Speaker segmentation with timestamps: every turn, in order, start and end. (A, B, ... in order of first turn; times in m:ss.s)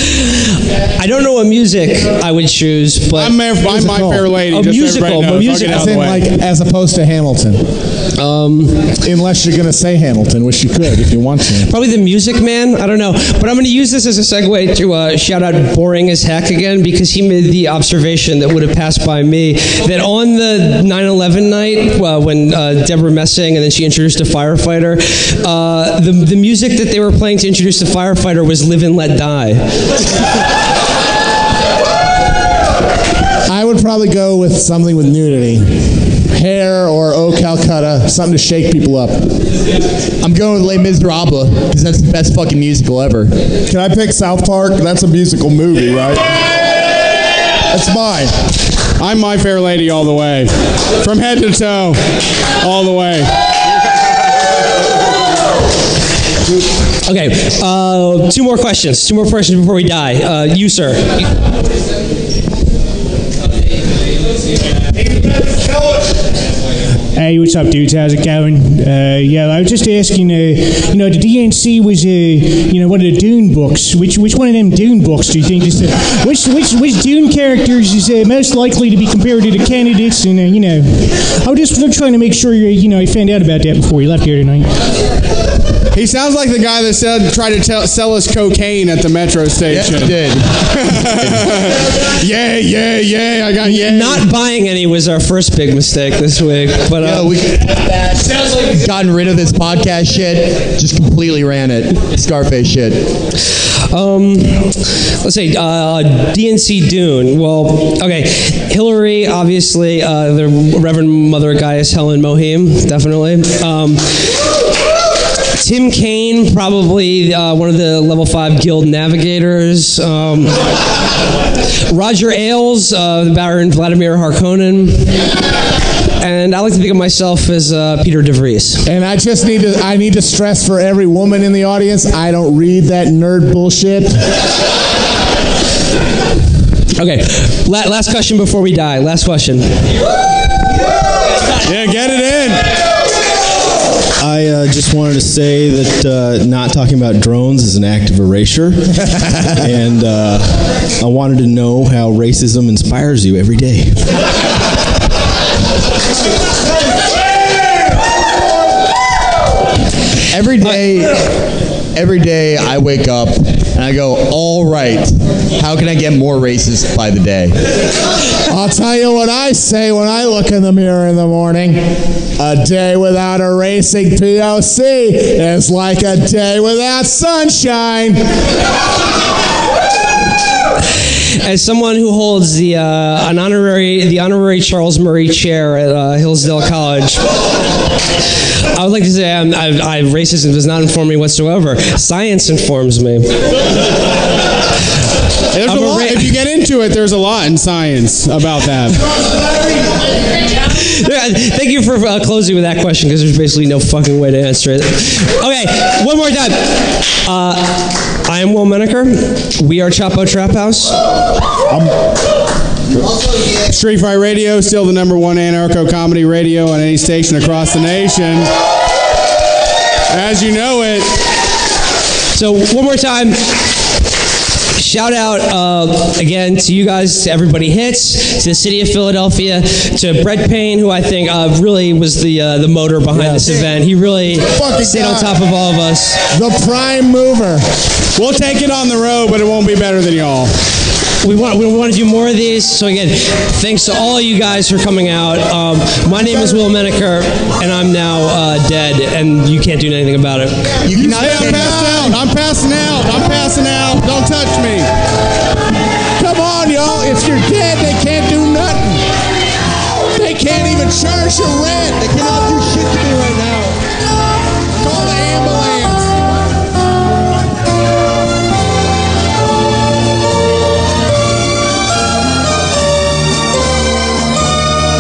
0:00.1-0:03.4 A
0:03.2-0:06.2 B
0:03.6-0:04.3 C
0:04.5-0:06.0 A
0:05.6-0:07.7 C
0:08.2-0:08.8 A
0:09.0-0:11.7 C
0:11.7-0:29.6 A
0:33.4-0:39.3 C
0:40.2-0:43.4 D
0:43.7-0:46.3 E
0:47.7-0:48.3 E
0:49.0-0:52.0 B
0:52.6-0:53.3 B
0:57.0-1:01.2 A
1:07.1-1:24.7 F
1:25.9-1:30.2 B
1:29.7-1:31.6 D
1:30.7-1:34.3 B
1:33.6-1:37.3 A
1:37.0-1:43.1 D
1:43.9-1:54.1 A
1:55.6-2:00.6 A
2:01.9-2:05.2 A
2:06.2-2:08.8 A
2:08.8-2:14.2 C
2:17.0-2:19.8 A
2:21.6-2:22.7 B
2:24.2-2:34.0 G
2:40.3-2:41.3 D
2:41.9-2:47.6 D
2:48.5-2:58.2 C
3:01.3-3:07.2 A
3:08.7-3:13.3 A
3:15.5-3:19.1 B
3:15.6-3:16.3 A
3:20.7-3:31.0 A
3:33.6-3:38.5 B
3:40.1-3:41.1 B
3:42.3-3:43.8 A
3:44.7-3:56.2 A
3:53.2-3:53.6 E
3:54.4-3:55.3 E
3:56.3-3:57.7 C
3:58.2-4:00.5 B
4:01.2-4:10.7 A
4:10.8-4:12.2 D
4:10.9-4:14.9 B
4:11.3-4:12.2 C
4:16.2-4:19.1 C
4:20.1-4:22.1 C
4:22.0-4:23.8 D
4:24.8-4:26.2 C